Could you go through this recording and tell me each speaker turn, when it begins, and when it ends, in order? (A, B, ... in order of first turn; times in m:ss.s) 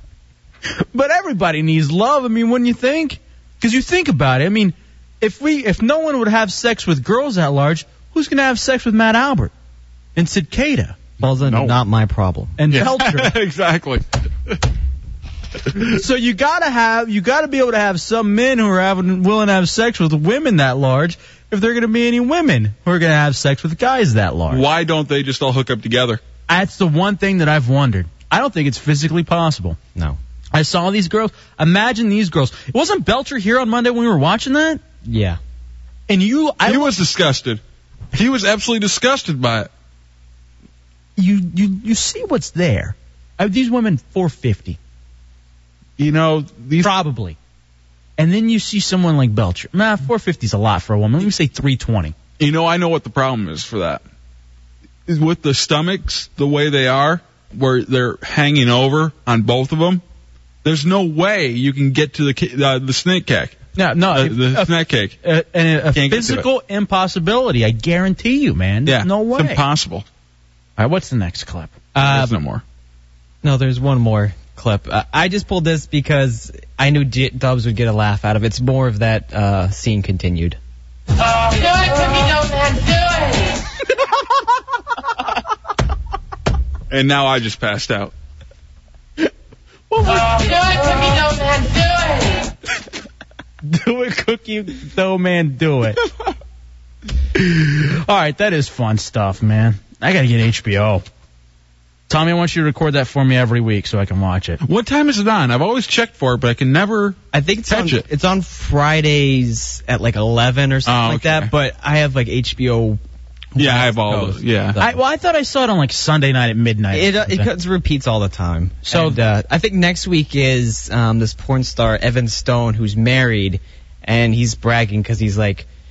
0:00.9-0:09.5 A
0:10.2-0:11.0 A
0:11.2-0:12.6 B
0:11.2-0:11.8 C
0:12.6-0:13.3 A
0:12.7-0:14.5 C
0:15.9-0:24.6 A
0:24.5-0:26.2 C
0:26.5-0:29.8 A
0:30.5-0:34.8 A
0:35.0-0:35.4 B
0:36.1-0:36.9 A
0:36.6-0:37.6 C
0:38.1-0:39.7 C
0:41.2-0:44.8 A
0:46.0-0:46.9 C
0:46.8-0:47.4 A
0:48.2-0:52.1 A
0:52.4-0:54.0 C
0:55.1-1:00.0 C
1:00.6-1:03.6 C
1:03.8-1:09.6 A
1:04.1-1:05.2 C
1:05.9-1:06.4 C
1:08.8-1:10.0 C
1:10.8-1:11.8 A
1:11.9-1:12.4 B
1:12.0-1:12.6 C
1:13.4-1:20.6 B
1:21.6-1:23.1 D
1:26.9-1:28.1 C
1:29.9-1:30.4 A
1:31.1-1:31.8 D
1:33.6-1:36.0 A
1:37.3-1:41.0 A
1:42.1-1:44.6 A
1:44.6-1:48.0 C
1:47.3-1:53.0 B
1:50.8-1:51.5 C
1:53.6-1:55.0 B
1:53.6-1:54.8 C
1:54.8-1:57.5 A
1:56.9-2:05.6 B
1:58.8-1:59.2 A